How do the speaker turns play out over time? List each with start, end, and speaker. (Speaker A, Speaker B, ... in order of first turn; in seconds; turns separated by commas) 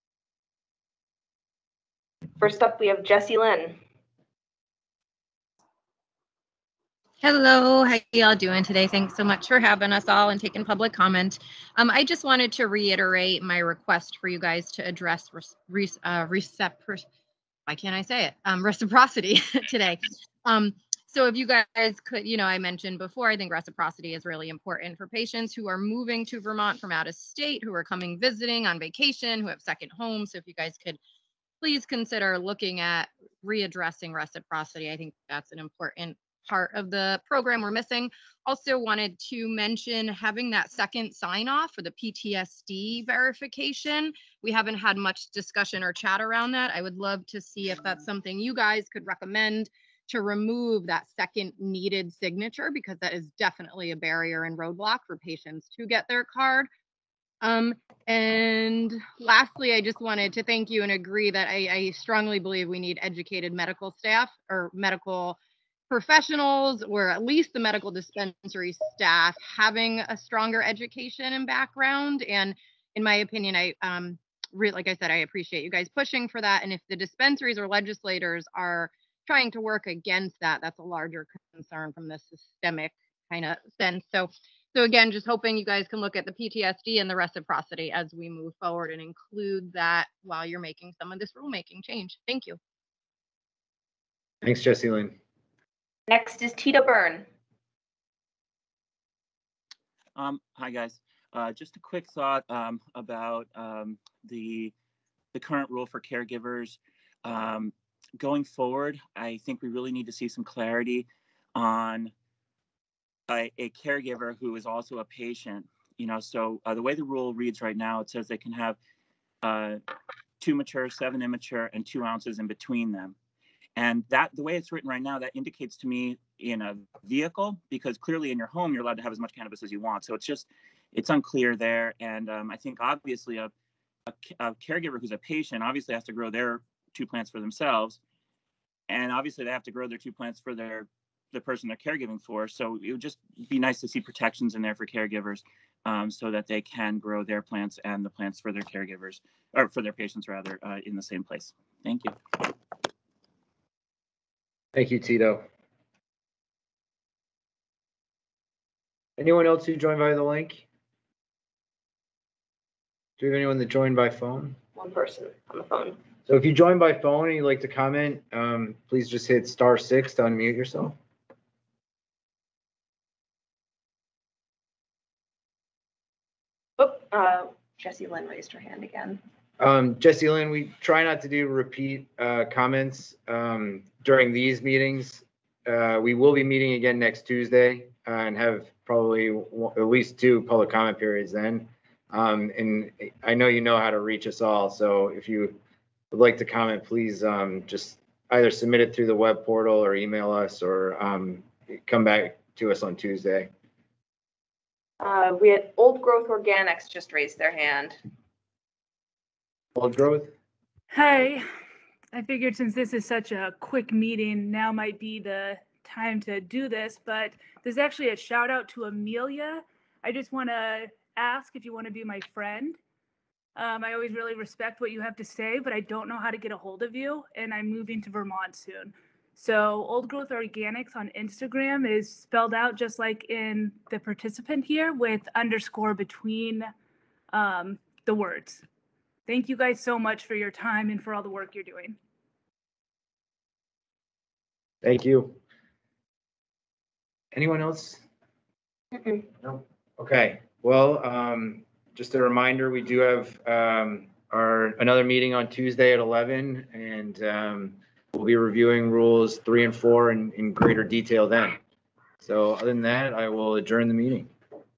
Speaker A: 2.4-3.8, Speaker B: 7.2-17.0, Speaker B: 17.7-31.0, Speaker B: 31.6-56.7, Speaker B: 57.4-65.4, Speaker B: 65.9-92.6, Speaker C: 94.4-95.2, Speaker A: 96.1-97.2, Speaker D: 100.2-104.7, Speaker D: 105.3-112.1, Speaker D: 113.3-118.8, Speaker D: 119.4-119.8, Speaker D: 120.4-123.1, Speaker D: 123.8-133.5, Speaker D: 134.1-138.0, Speaker D: 138.9-152.5, Speaker C: 154.7-155.4, Speaker C: 159.2-160.6, Speaker C: 163.2-164.6, Speaker A: 164.7-166.0, Speaker C: 166.3-170.9, Speaker A: 176.8-179.2, Speaker C: 179.6-195.6, Speaker C: 196.1-203.5, Speaker A: 205.0-208.0, Speaker C: 209.7-210.3, Speaker E: 210.9-211.5, Speaker E: 212.1-222.8, Speaker E: 223.6-236.7, Speaker E: 237.3-238.6, Speaker E: 239.3-242.0, Speaker C: 244.8-245.4, Speaker C: 247.3-248.0, Speaker A: 248.9-249.2, Speaker C: 249.4-261.6, Speaker C: 262.2-264.3